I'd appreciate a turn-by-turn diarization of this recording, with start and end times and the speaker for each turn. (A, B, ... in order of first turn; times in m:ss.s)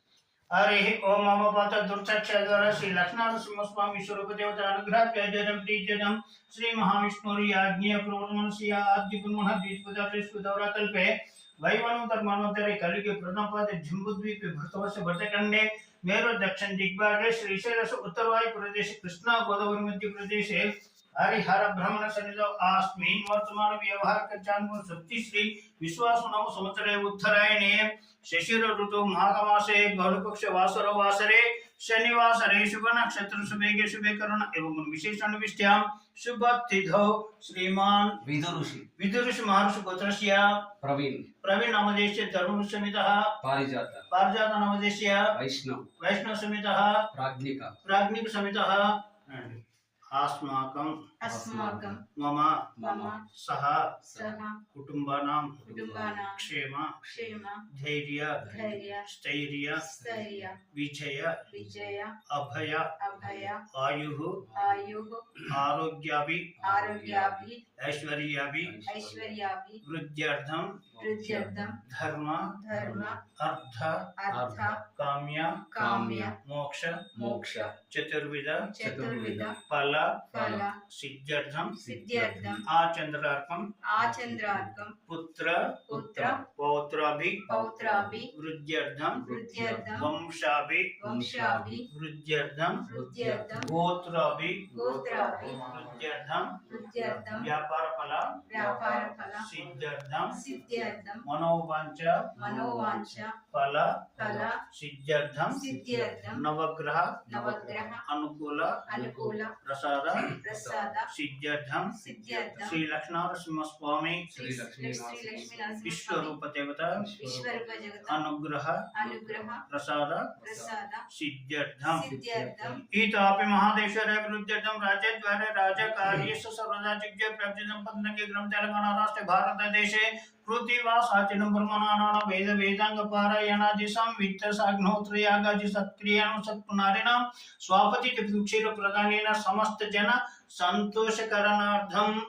0:00.5-0:38.2 A
0:38.2-0:38.8 B
0:39.0-0:40.7 A
0:40.8-0:41.2 B
0:41.4-0:43.3 A
0:43.4-0:44.1 B
0:44.1-0:45.3 A
0:45.3-0:45.9 B
0:46.0-0:47.1 A
0:47.1-0:47.7 B
0:47.8-0:51.0 A
0:51.2-0:52.0 C
0:51.2-0:52.0 B
0:52.1-0:52.7 A
0:52.8-0:53.2 B
0:52.8-0:53.2 C
0:53.3-0:53.9 A
0:54.0-0:54.6 C
0:54.1-0:54.4 B
0:54.7-0:57.0 A
0:55.6-0:56.2 B
0:55.6-0:56.5 C
0:57.0-0:57.6 C
0:57.7-0:59.9 A
0:58.4-0:58.8 B
0:58.5-0:59.1 C
0:59.8-1:00.6 C
0:59.9-1:00.5 B
1:00.7-1:01.5 A
1:01.5-1:02.1 C
1:01.5-1:01.9 B
1:02.3-1:02.9 A
1:03.0-1:03.6 C
1:03.2-1:03.5 B
1:03.6-1:04.4 A
1:04.4-1:04.9 B
1:04.5-1:05.4 C
1:05.4-1:06.6 A
1:06.6-1:07.5 B
1:06.6-1:07.6 C
1:07.8-1:08.8 A
1:08.6-1:09.4 B
1:08.8-1:09.8 C
1:09.8-1:10.8 A
1:10.9-1:11.8 B
1:11.0-1:11.8 C
1:11.8-1:12.5 A
1:12.5-1:13.2 C
1:12.7-1:13.2 B
1:13.2-1:14.1 A
1:14.2-1:14.8 C
1:14.3-1:14.8 B
1:14.8-1:15.7 A
1:15.7-1:16.3 C
1:15.8-1:16.3 B
1:16.4-1:17.2 A
1:17.1-1:17.7 C
1:17.1-1:17.7 B
1:17.8-1:18.7 A
1:18.7-1:19.6 C
1:18.8-1:19.5 B
1:19.6-1:21.8 A
1:20.3-1:20.7 B
1:20.3-1:20.8 C
1:21.8-1:22.6 C
1:21.8-1:22.6 B
1:22.6-1:23.7 A
1:23.9-1:24.9 C
1:24.0-1:24.8 B
1:25.0-1:27.5 A
1:25.9-1:26.4 C
1:27.5-1:28.2 B
1:27.5-1:28.3 C
1:28.3-1:29.3 A
1:29.2-1:30.0 B
1:29.2-1:30.1 C
1:29.9-1:31.0 A
1:31.0-1:31.9 C
1:31.0-1:31.8 B
1:31.9-1:32.9 A
1:32.8-1:33.7 C
1:32.9-1:33.7 B
1:33.6-1:34.7 A
1:34.7-1:36.0 B
1:34.7-1:35.6 C
1:35.5-1:40.4 A
1:36.7-1:37.4 B
1:36.7-1:37.5 C
1:38.5-1:39.5 C
1:40.3-1:41.2 C
1:41.2-1:45.7 A
1:42.4-1:43.3 C
1:42.4-1:43.0 B
1:44.2-1:44.5 B
1:44.2-1:44.6 C
1:45.5-1:46.4 C
1:45.7-1:46.4 B
1:46.3-1:47.3 A
1:47.2-1:48.0 B
1:47.3-1:48.0 C
1:48.0-1:48.8 A
1:48.9-1:49.4 B
1:48.9-1:49.5 C
1:49.6-1:50.3 A
1:50.1-1:51.0 B
1:50.4-1:51.1 C
1:51.0-1:52.0 A
1:52.0-1:52.8 C
1:52.1-1:52.7 B
1:52.6-1:54.3 A
1:54.3-1:56.4 C
1:54.3-1:55.9 B
1:55.8-1:57.1 A
1:57.0-1:58.1 B
1:57.2-1:58.2 C
1:58.1-1:58.9 A
1:58.9-1:59.6 C
1:59.0-1:59.6 B
1:59.6-2:00.3 A
2:00.4-2:00.7 B
2:00.4-2:01.0 C
2:01.1-2:02.1 A
2:01.8-2:02.8 C
2:02.1-2:02.8 B
2:02.8-2:22.1 A